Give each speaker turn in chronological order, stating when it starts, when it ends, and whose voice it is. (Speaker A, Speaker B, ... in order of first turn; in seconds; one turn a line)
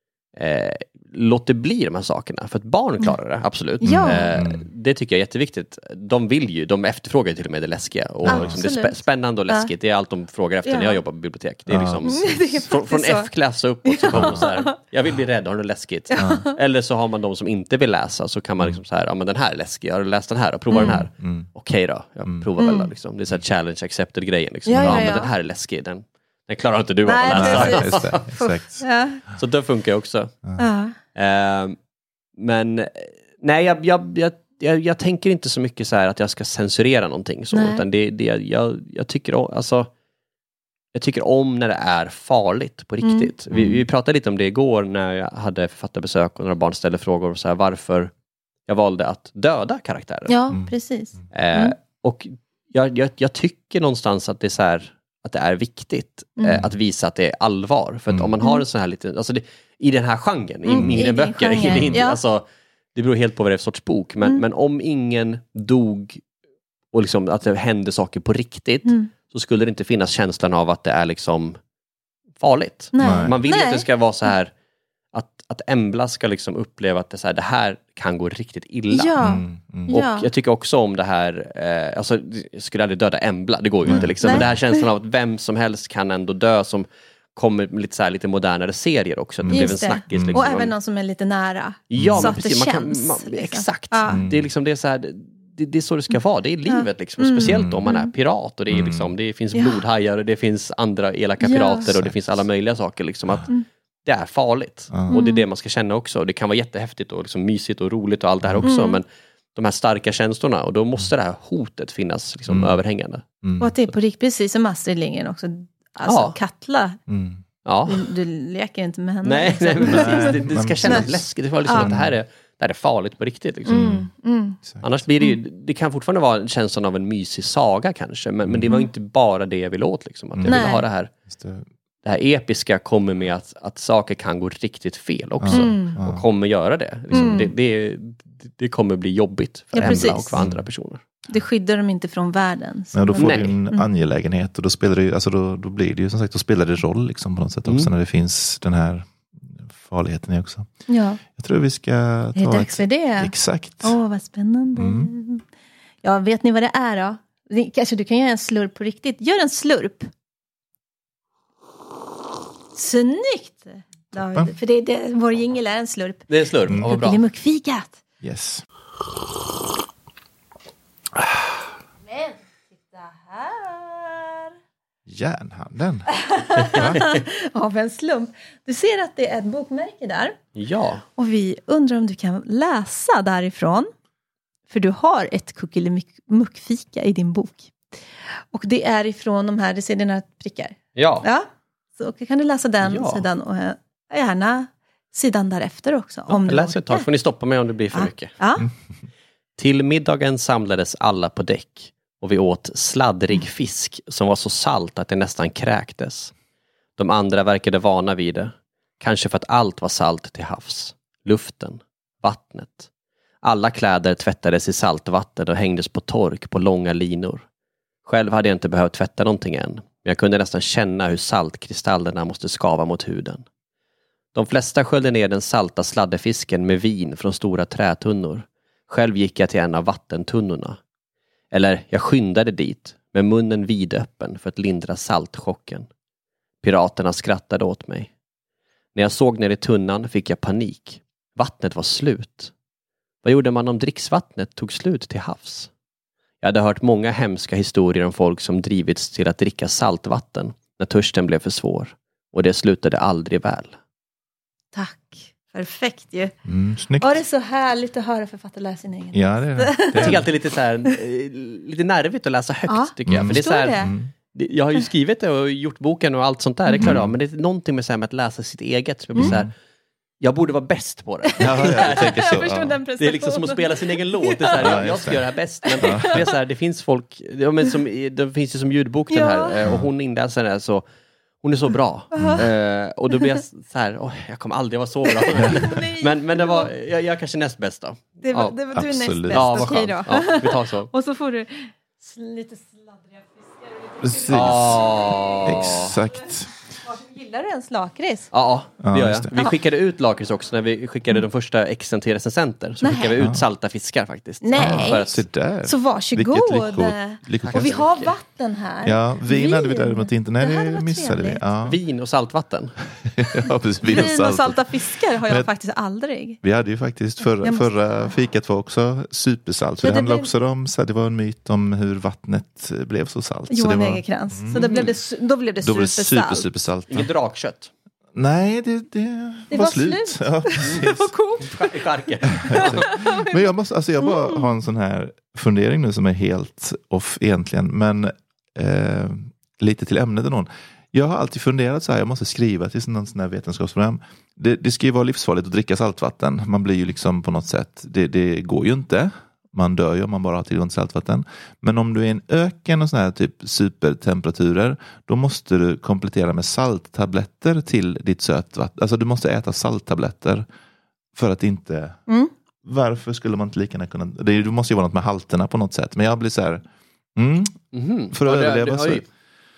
Speaker A: 0.3-28.2
Speaker B: 3.8-4.3
Speaker C: 3.8-4.7
Speaker C: 8.2-8.6
Speaker B: 8.3-9.7
Speaker B: 10.6-11.0
Speaker C: 11.7-12.7
Speaker B: 12.1-13.3
Speaker B: 13.8-14.7
Speaker C: 14.1-14.5
Speaker B: 16.1-16.6
Speaker C: 16.2-16.4
Speaker B: 20.7-21.0
Speaker C: 20.8-21.5
Speaker B: 22.6-22.9
Speaker B: 24.6-25.3
Speaker C: 24.7-25.2
Speaker B: 27.0-29.2
Speaker C: 27.3-28.8
Speaker A: 29.3-30.3
Speaker B: 30.6-30.9
Speaker A: 31.1-31.8
Speaker A: 32.3-39.9
Speaker B: 37.5-37.8
Speaker A: 40.9-48.1
Speaker B: 43.0-43.3
Speaker C: 43.5-43.8
Speaker A: 48.6-50.3
Speaker B: 50.3-51.7
Speaker A: 51.3-66.2
Speaker B: 56.4-56.7
Speaker B: 60.7-62.2
Speaker C: 60.7-61.0
Speaker C: 61.7-62.0
Speaker A: 66.9-71.6
Speaker B: 68.8-69.1
Speaker A: 72.4-74.5
Speaker B: 72.9-73.9
Speaker C: 73.0-73.3
Speaker A: 75.1-79.2
Speaker B: 78.9-80.3
Speaker C: 79.2-80.0
Speaker A: 79.9-90.7
Speaker C: 83.8-84.5
Speaker B: 84.2-84.8
Speaker C: 89.4-90.4
Speaker B: 89.5-94.2
Speaker A: 91.9-113.2
Speaker C: 92.0-92.3
Speaker C: 94.1-94.5
Speaker B: 96.7-98.1
Speaker C: 97.4-97.8
Speaker C: 98.7-99.1
Speaker B: 99.5-99.8
Speaker B: 101.4-101.9
Speaker C: 101.8-102.5
Speaker B: 105.1-105.4
Speaker C: 108.4-108.7
Speaker B: 108.6-109.0
Speaker C: 112.5-112.8
Speaker C: 113.4-113.9
Speaker B: 113.6-117.0
Speaker A: 116.0-116.3
Speaker C: 117.1-117.4
Speaker A: 117.6-118.1
Speaker B: 117.9-121.1
Speaker A: 119.2-124.0
Speaker C: 119.8-122.1
Speaker B: 121.7-121.9
Speaker C: 123.7-124.1
Speaker B: 123.7-124.6
Speaker A: 124.8-131.1
Speaker C: 130.3-130.8
Speaker B: 130.4-130.8
Speaker C: 131.3-131.7
Speaker A: 132.0-141.0
Speaker C: 135.4-136.2
Speaker B: 135.5-136.0
Speaker B: 137.1-137.5
Speaker C: 137.2-137.4
Speaker B: 139.7-140.4
Speaker C: 139.8-140.7
Speaker B: 141.2-143.8
Speaker C: 142.9-150.7
Speaker A: 143.1-143.6
Speaker B: 150.9-151.2
Speaker C: 151.3-154.0
Speaker B: 152.3-155.4
Speaker C: 154.8-155.1
Speaker B: 156.0-160.1
Speaker B: 162.7-168.0
Speaker C: 164.1-164.5
Speaker A: 166.3-167.2
Speaker C: 168.2-168.6
Speaker B: 172.0-174.5
Speaker C: 175.1-177.1
Speaker B: 176.2-180.4
Speaker A: 176.5-177.2
Speaker A: 180.5-181.0
Speaker B: 181.2-183.9
Speaker B: 184.7-187.7
Speaker B: 188.4-197.1
Speaker A: 190.9-191.2
Speaker A: 192.8-193.2
Speaker A: 196.3-198.3
Speaker B: 197.9-198.7
Speaker A: 199.6-206.3
Speaker A: 206.9-212.9
Speaker A: 213.4-217.4
Speaker A: 218.0-223.4
Speaker A: 224.3-230.8
Speaker A: 231.5-235.9
Speaker A: 236.6-238.1
Speaker A: 238.9-242.5
Speaker A: 243.2-245.7
Speaker A: 246.4-253.8
Speaker B: 254.7-256.3
Speaker C: 256.4-257.2
Speaker B: 257.0-260.2
Speaker C: 259.1-260.2
Speaker A: 260.0-269.5
Speaker B: 262.7-263.9
Speaker C: 263.1-264.1
Speaker B: 266.7-267.0
Speaker C: 266.8-267.1
Speaker C: 269.2-269.5
Speaker A: 270.2-272.4
Speaker B: 271.4-276.3
Speaker C: 271.4-272.8
Speaker A: 273.0-280.9
Speaker C: 274.6-275.2
Speaker C: 275.8-276.1
Speaker B: 279.1-279.6
Speaker A: 281.4-288.6
Speaker B: 282.1-282.5
Speaker C: 282.1-282.5
Speaker B: 283.1-283.4
Speaker B: 285.1-286.7
Speaker B: 288.2-298.3
Speaker C: 288.7-289.9
Speaker A: 289.3-290.9
Speaker C: 294.0-294.9
Speaker A: 294.3-296.0
Speaker C: 295.4-296.5
Speaker A: 298.3-305.1
Speaker C: 298.8-299.3
Speaker B: 302.8-303.2
Speaker B: 304.4-311.4
Speaker C: 304.6-308.0
Speaker A: 307.4-308.1
Speaker C: 308.8-311.8
Speaker A: 311.6-312.8
Speaker C: 313.0-314.7
Speaker B: 313.8-316.4
Speaker C: 316.4-324.9
Speaker B: 317.4-318.1
Speaker B: 319.8-320.3
Speaker B: 323.5-326.4
Speaker A: 324.5-324.9
Speaker C: 325.6-327.1
Speaker A: 326.9-327.7
Speaker C: 328.1-331.1
Speaker B: 329.5-333.4
Speaker A: 331.4-333.0
Speaker C: 332.4-360.4
Speaker B: 334.0-334.4
Speaker C: 361.1-362.0
Speaker C: 362.6-369.0
Speaker A: 367.7-369.1